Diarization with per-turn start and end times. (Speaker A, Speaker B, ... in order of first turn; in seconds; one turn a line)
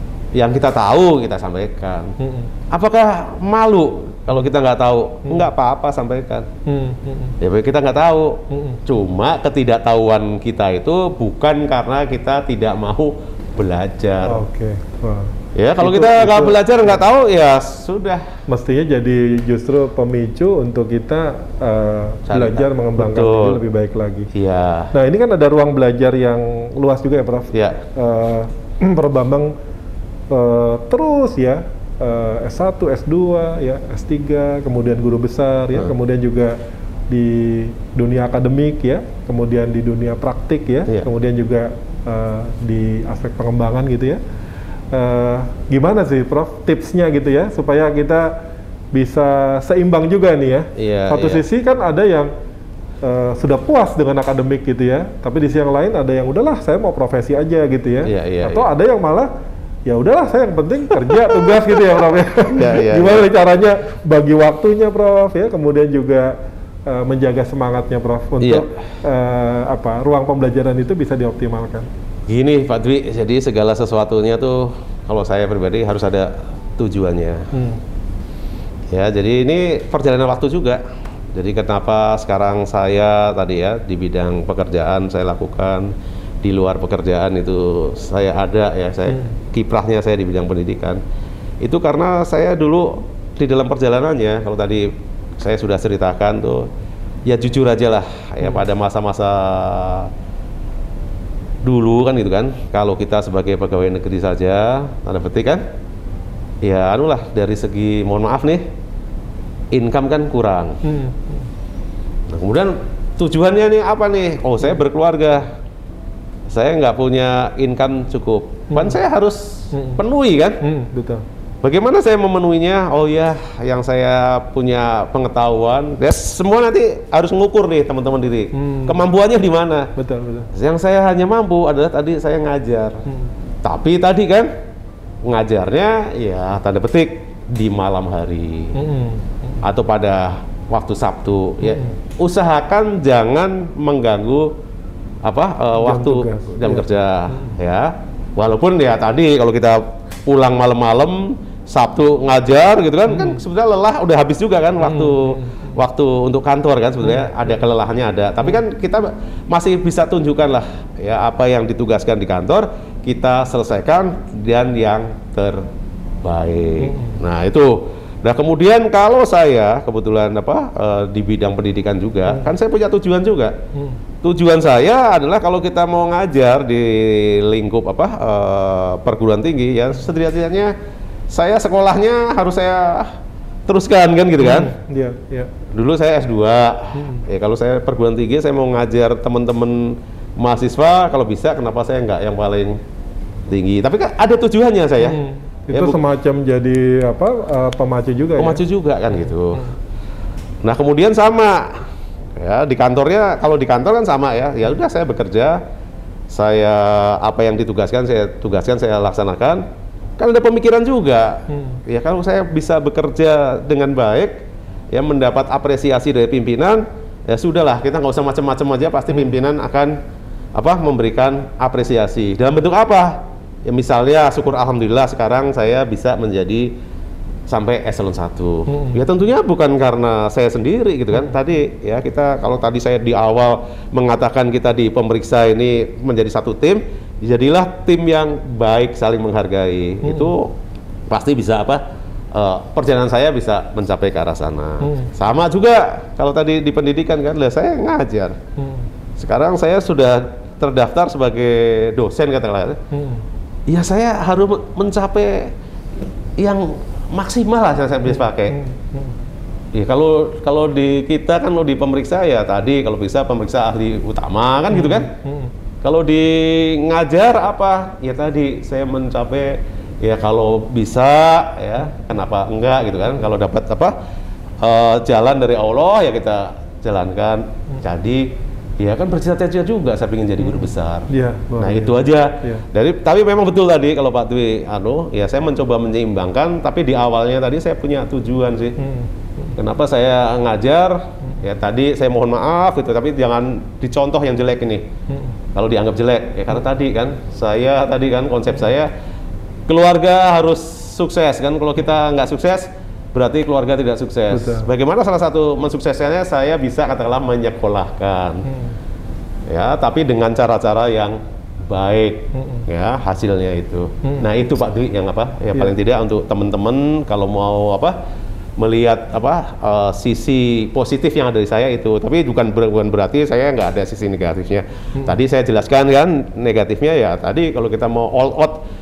Speaker A: 0.4-2.2
Speaker B: 2.2-2.5
Speaker A: 2.7-6.5
Speaker B: 6.7-7.4
Speaker A: 7.4-14.4
Speaker B: 8.5-8.8
Speaker B: 14.3-17.0
Speaker A: 15.6-18.2
Speaker B: 18.5-24.3
Speaker A: 22.3-23.6
Speaker A: 24.3-24.9
Speaker B: 24.9-29.5
Speaker A: 27.5-27.8
Speaker B: 30.3-36.6
Speaker B: 37.1-44.2
Speaker B: 44.9-48.4
Speaker B: 48.9-52.3
Speaker A: 50.8-51.4
Speaker B: 53.0-59.3
Speaker A: 58.1-58.7
Speaker B: 59.9-71.9
Speaker A: 62.5-63.3
Speaker A: 68.4-68.7
Speaker A: 72.3-77.5
Speaker B: 77.5-77.8
Speaker A: 78.9-80.8
Speaker A: 81.3-91.0
Speaker A: 91.6-96.7
Speaker A: 97.3-100.1
Speaker A: 101.6-105.6
Speaker A: 106.6-108.7
Speaker A: 109.7-110.8
Speaker B: 110.8-111.4
Speaker A: 112.3-115.5
Speaker A: 116.5-120.6
Speaker B: 118.7-119.0
Speaker B: 119.7-120.0
Speaker B: 120.6-121.2
Speaker A: 121.6-129.9
Speaker B: 128.5-129.0
Speaker B: 130.0-130.5
Speaker A: 130.5-133.0
Speaker A: 133.6-134.5
Speaker A: 135.2-138.7
Speaker B: 138.7-139.6
Speaker A: 139.6-144.5
Speaker B: 141.6-141.9
Speaker A: 145.2-165.7
Speaker B: 145.8-147.6
Speaker B: 153.1-153.4
Speaker B: 154.8-155.7
Speaker A: 166.2-173.6
Speaker B: 166.8-167.2
Speaker A: 174.2-180.7
Speaker A: 181.3-183.1
Speaker A: 183.7-184.7
Speaker B: 184.4-185.5
Speaker A: 185.7-192.8
Speaker B: 186.9-187.2
Speaker A: 193.5-195.2
Speaker B: 195.0-198.6
Speaker A: 195.7-196.0
Speaker A: 198.4-199.7
Speaker A: 200.6-205.6
Speaker A: 206.3-209.7
Speaker A: 210.2-214.4
Speaker B: 211.5-211.8
Speaker A: 214.9-220.0
Speaker A: 220.6-226.7
Speaker A: 227.5-240.5
Speaker B: 228.7-229.0
Speaker B: 240.0-240.3
Speaker A: 241.1-248.4
Speaker B: 244.8-245.1
Speaker B: 248.6-248.9
Speaker A: 249.2-252.8
Speaker B: 252.9-253.2
Speaker A: 253.7-255.5
Speaker A: 256.4-258.6
Speaker B: 258.1-259.1
Speaker A: 259.7-265.1
Speaker B: 264.7-265.5
Speaker A: 265.8-273.9
Speaker A: 274.6-288.8
Speaker B: 281.1-282.6
Speaker B: 288.8-289.5
Speaker A: 289.6-294.9
Speaker A: 295.5-298.9
Speaker A: 299.7-308.5
Speaker B: 304.3-304.7
Speaker B: 308.5-308.8
Speaker A: 309.5-317.9
Speaker B: 312.3-312.7
Speaker B: 314.0-314.3
Speaker A: 318.6-328.6